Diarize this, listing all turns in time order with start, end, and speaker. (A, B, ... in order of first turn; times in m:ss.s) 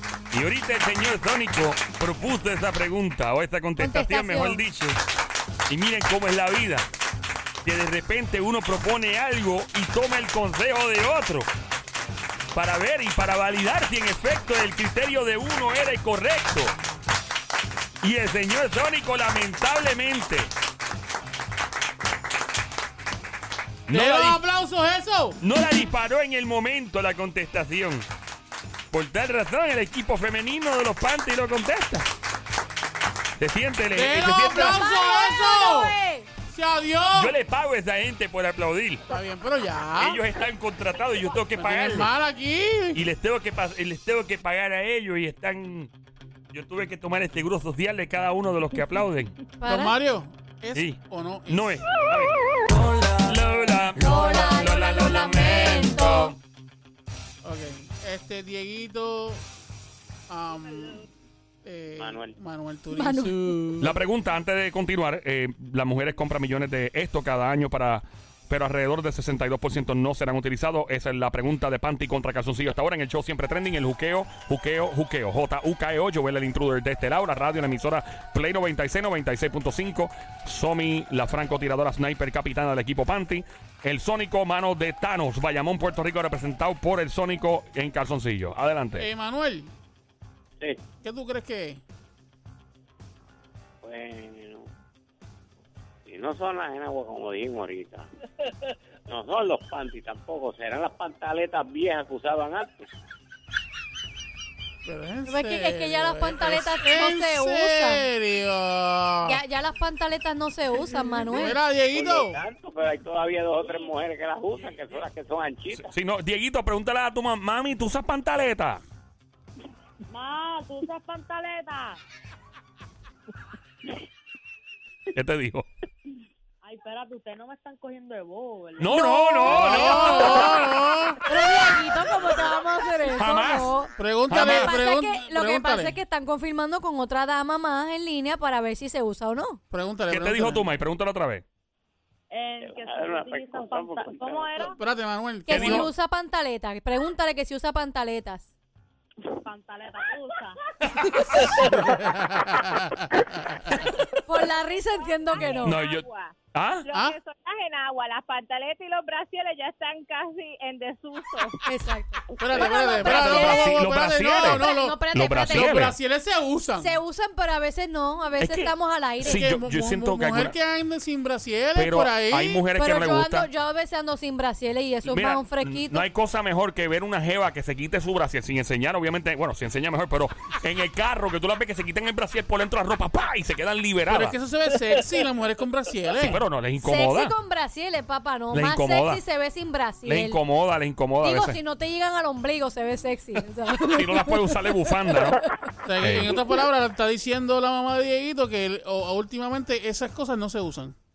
0:00.3-0:05.0 A
0:03.8-0:04.6 B
0:05.7-0:06.8 A
0:07.6-0:11.5 A
0:12.5-0:16.7 A
0:18.0-0:20.5 A
0:23.9-0:24.4 A
0:23.9-0:25.4 C
0:25.4-0:28.0 A
0:28.9-0:32.1 A
0:33.4-0:34.8 A
0:33.9-0:37.4 C
0:34.5-0:36.3 B
0:37.1-0:39.1 A
0:39.1-0:40.2 C
0:40.0-0:42.1 A
0:41.6-0:43.0 C
0:42.9-0:45.9 A
0:46.5-0:49.3 A
0:49.6-0:49.9 B
0:49.6-0:51.8 C
0:50.7-0:52.4 A
0:53.0-0:56.4 A
0:54.0-0:56.3 B
0:57.4-0:59.4 C
1:00.3-1:01.1 C
1:00.7-1:01.0 D
1:01.6-1:04.0 C
1:02.0-1:02.4 E
1:02.9-1:03.5 B
1:03.8-1:29.1 A
1:29.0-1:29.7 C
1:31.0-1:31.8 C
1:33.8-1:34.7 E
1:36.0-1:38.1 E
1:39.1-1:42.9 E
1:44.8-1:49.4 C
1:45.3-1:48.0 B
1:49.2-1:51.6 B
1:51.3-1:52.4 C
1:51.9-1:55.9 E
1:55.7-1:58.8 A
2:00.1-2:02.0 D
2:05.1-2:05.7 A
2:06.6-2:09.0 D
2:08.8-2:10.6 A
2:08.9-2:10.5 B
2:09.5-2:11.2 C
2:11.2-2:19.6 B
2:13.2-2:13.7 A
2:14.0-2:16.0 C
2:14.3-2:14.7 A
2:19.7-2:20.7 C
2:20.1-2:21.4 A
2:22.3-2:24.8 D
2:22.6-2:24.7 E
2:24.8-2:25.9 C
2:25.5-2:28.5 B
2:25.5-2:25.9 A
2:29.2-2:30.6 D
2:31.6-2:33.7 C
2:34.1-2:35.8 B
2:34.8-2:41.6 D
2:35.6-2:36.9 A
2:36.9-2:37.2 C
2:41.6-2:45.8 B
2:42.4-2:47.0 C
2:43.0-2:46.0 A
2:46.8-2:49.5 B
2:48.4-2:50.5 A
2:49.2-2:52.6 C
2:51.8-2:53.5 A
2:52.7-2:56.0 B
2:55.0-3:04.4 A
3:04.1-3:06.4 C
3:06.2-3:07.3 A
3:06.8-3:10.4 B
3:08.5-3:09.2 A
3:10.0-3:11.6 A
3:11.2-3:15.4 B
3:13.8-3:15.4 A
3:15.8-3:21.0 C
3:16.0-3:16.4 A